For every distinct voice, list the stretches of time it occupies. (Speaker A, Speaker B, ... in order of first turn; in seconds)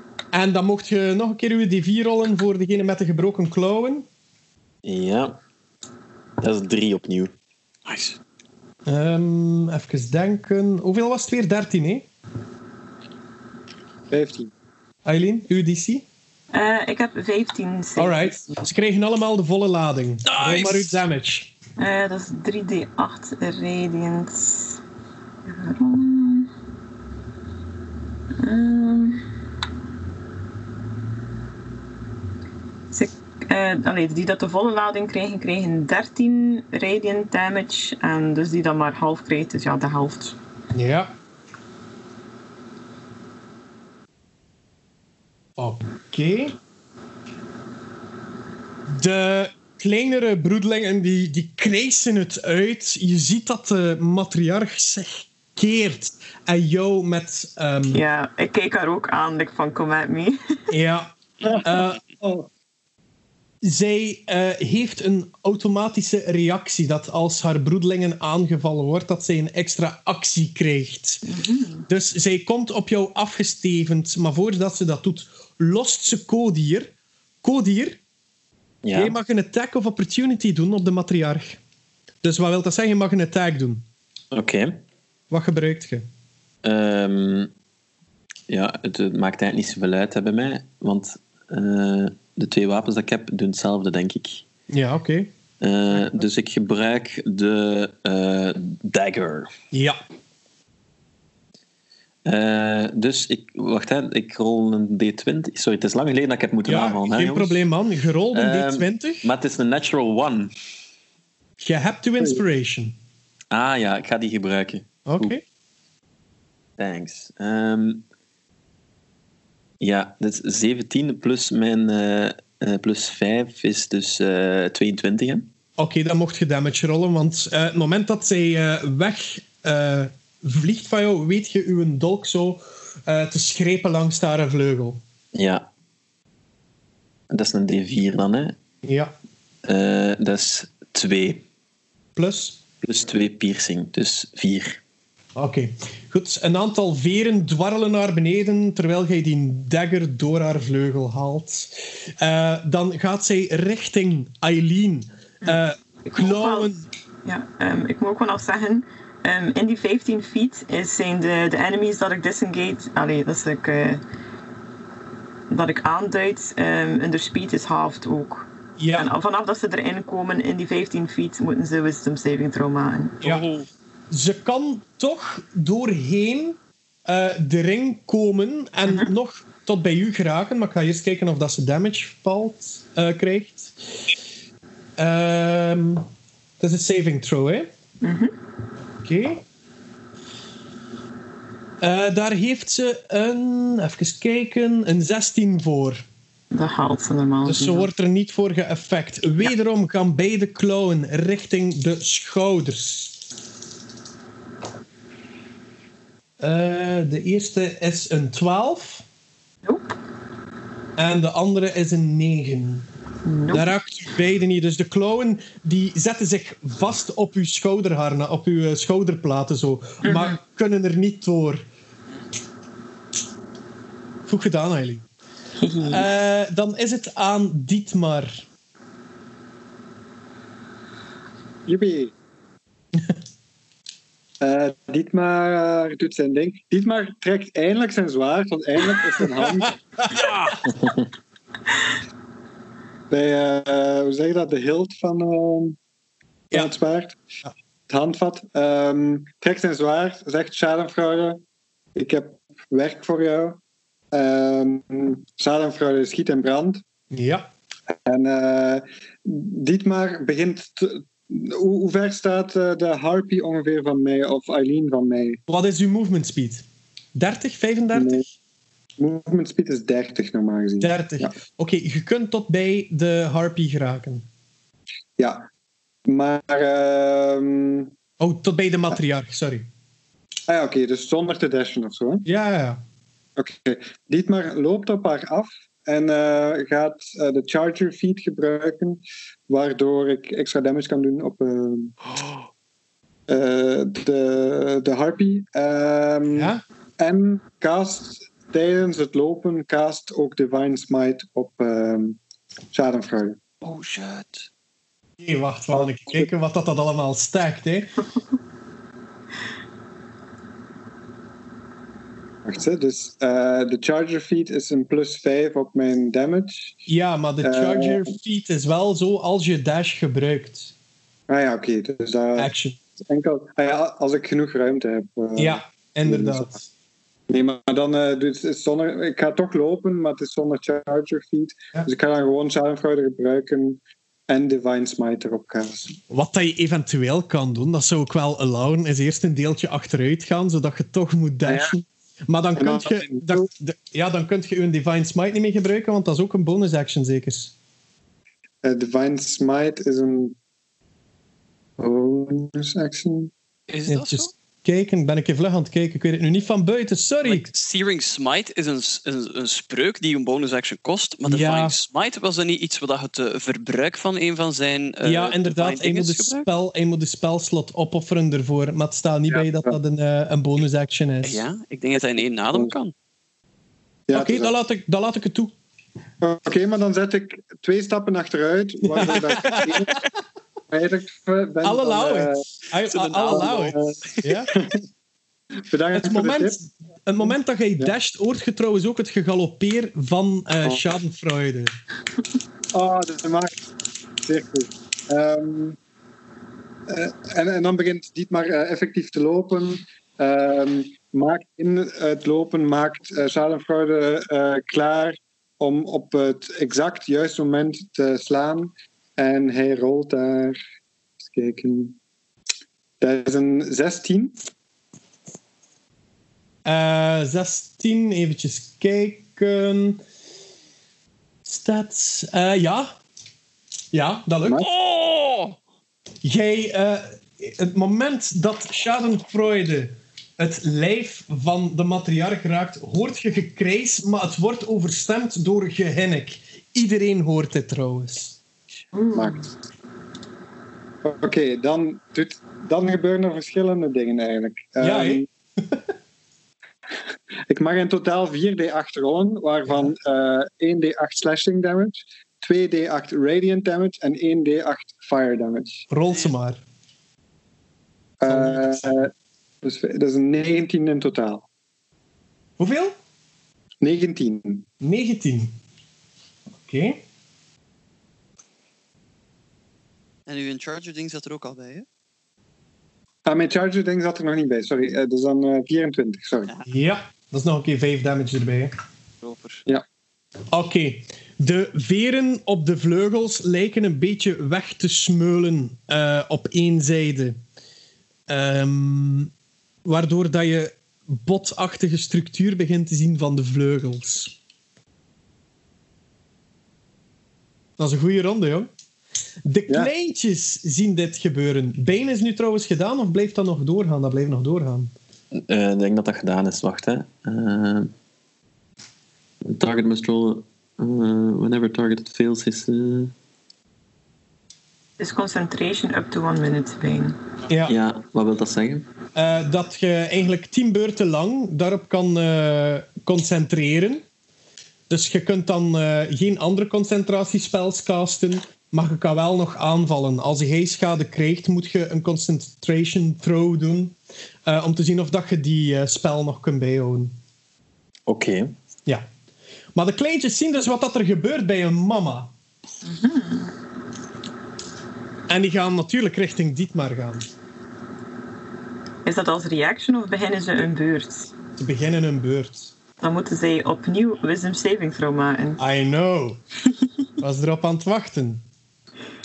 Speaker A: 0.3-4.1, 8.9-12.1, 15.1-16.1, 18.0-21.5, 40.7-41.1, 45.6-46.5, 48.9-58.0, 60.7-62.0, 63.6-71.2, 71.9-78.0, 78.9-81.6, 82.2-83.8, 85.3-86.0, 94.7-95.3, 95.9-96.2, 99.7-100.0, 106.7-109.3, 111.6-113.0, 115.1-115.4, 125.8-135.0, 138.8-139.1, 142.2-142.6, 145.4-156.9, 168.8-169.1, 174.1-183.8, 185.0-186.1, 186.6-187.7, 189.0-189.4, 191.8-196.0, 197.4-203.2, 206.4-209.0, 211.0-212.9, 213.5-221.7, 224.3-225.0, 225.9-228.4, 239.6-240.3, 257.1-257.5, 265.5-268.2, 270.8-274.3, 278.2-279.7, 282.2-282.8, 296.3-296.6, 305.2-308.0, 316.9-320.7, 322.4-322.8, 325.4-326.7, 336.1-347.5, 353.9-357.4, 361.2-361.8, 365.0-371.4, 374.1-375.5, 378.8-380.0, 381.6-384.5, 385.9-391.7, 416.6-420.0, 421.4-422.9, 423.9-424.6, 426.2-438.4, 444.8-445.8, 455.9-456.6, 458.3-458.9, 462.6-462.9, 464.8-465.6, 466.6-467.0, 476.7-478.7, 480.5-487.4, 488.3-489.3, 489.9-494.4, 497.8-498.7, 499.4-504.9, 517.5-517.8, 519.1-524.0, 524.9-537.1, 539.8-542.3, 545.3-547.3, 551.6-552.7, 555.6-556.4, 557.2-558.4
Speaker B: 4.8-5.4, 6.4-7.3, 78.8-79.2, 84.3-84.8, 86.6-87.5, 88.5-94.4, 95.6-99.5, 102.3-107.6, 108.3-110.5, 113.5-115.4, 116.8-118.0, 119.8-125.5, 135.3-135.7, 137.3-138.6, 139.6-141.4, 142.8-144.8, 505.3-507.9, 509.4-513.1, 517.7-518.9, 538.1-538.5
Speaker C: 7.9-8.2, 20.3-21.0, 173.2-173.7, 240.1-240.7, 303.6-304.5, 353.7-354.3, 357.2-366.5, 371.2-372.9, 382.8-384.2, 424.6-425.6, 470.3-471.9, 479.2-479.6
Speaker D: 14.1-14.5, 62.2-62.5, 231.7-232.1, 234.4-239.8, 243.1-245.8, 246.5-247.2, 247.9-251.4, 251.9-253.6, 254.1-256.8, 258.1-265.4, 267.9-268.2, 269.0-271.4, 275.2-275.5, 276.1-277.9, 280.5-282.2, 283.4-291.9, 293.3-302.2, 302.7-303.4, 305.8-306.2, 312.4-316.8, 317.4-318.1, 321.3-326.5, 327.3-336.0, 341.5-341.7, 342.6-343.5, 348.6-350.4, 351.8-353.3, 369.3-369.8, 374.1-374.5, 376.2-379.9, 380.7-382.5, 383.2-384.0, 384.6-384.8, 385.7-386.6, 390.7-390.9, 392.7-393.6, 394.2-395.8, 396.9-410.6, 411.2-412.0, 413.0-414.4, 439.1-439.4, 441.0-445.3, 447.5-455.9, 458.2-459.1, 459.6-461.5, 463.8-464.7, 473.3-476.5
Speaker E: 16.5-18.4, 21.8-24.8, 25.5-26.5, 28.4-29.2, 32.9-40.4, 57.9-60.6, 71.3-71.8, 155.4-156.7, 157.2-164.0, 165.5-173.2, 178.9-179.1, 188.0-188.3, 196.5-197.9, 209.6-210.0, 213.3-213.7, 220.0-220.3, 225.6-226.1, 438.9-439.5, 515.0-517.2, 542.8-543.5, 549.0-551.3, 553.0-555.6